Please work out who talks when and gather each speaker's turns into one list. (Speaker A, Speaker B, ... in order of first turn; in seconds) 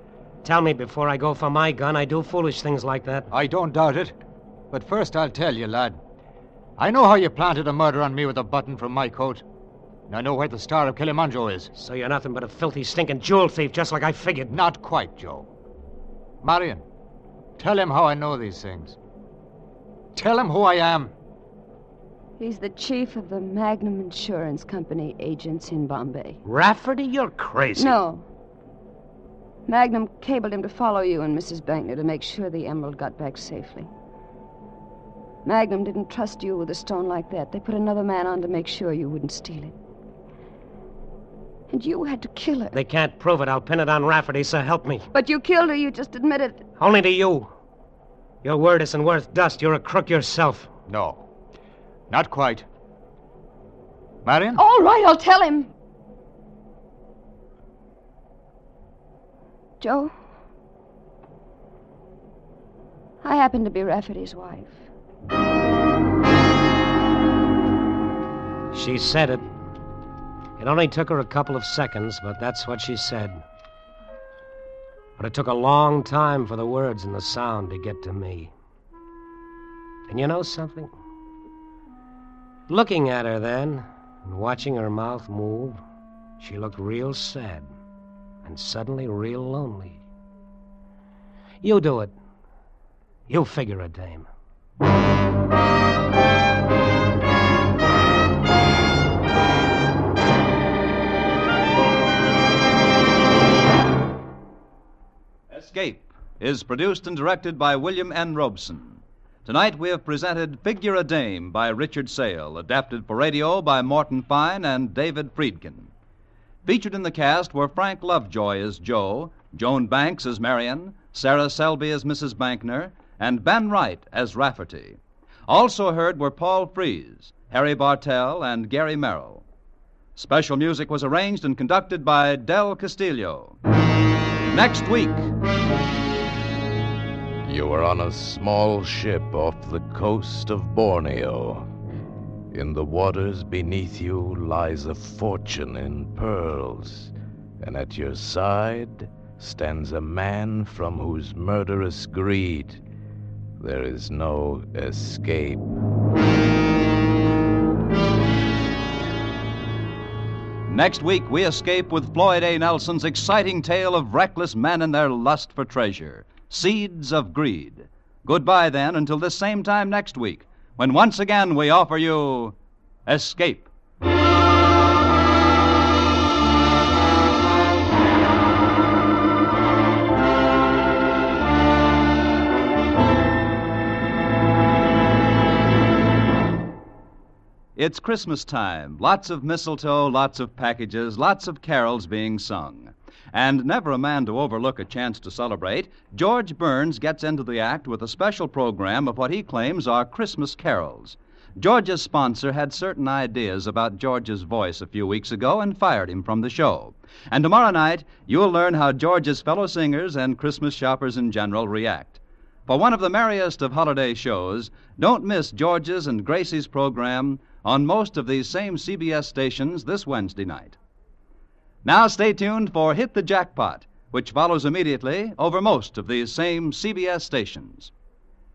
Speaker A: 0.4-3.3, 11.8-14.6, 26.4-28.0, 42.7-45.1, 46.8-47.5, 48.4-50.7, 68.7-69.4, 70.6-73.4, 75.2-78.5, 80.1-80.9, 82.7-85.8, 86.4-87.7, 88.4-90.0, 91.6-92.2, 93.3-94.3
Speaker B: 3.3-4.2, 4.7-6.0, 6.8-9.4, 10.1-11.7, 14.5-15.5, 16.4-16.8, 17.6-19.0, 20.1-21.1, 50.9-51.3, 52.1-52.6, 54.2-54.6
Speaker C: 22.4-26.4, 27.8-28.3, 29.7-33.9, 35.5-39.7, 41.7-42.8, 45.1-46.7, 54.5-55.7, 59.8-60.1, 63.2-64.8
Speaker D: 105.5-115.9, 116.7-129.4, 130.2-133.6, 134.5-135.3, 160.7-173.7, 187.8-220.8, 221.8-227.9
Speaker E: 137.4-141.7, 142.5-152.8, 153.6-155.7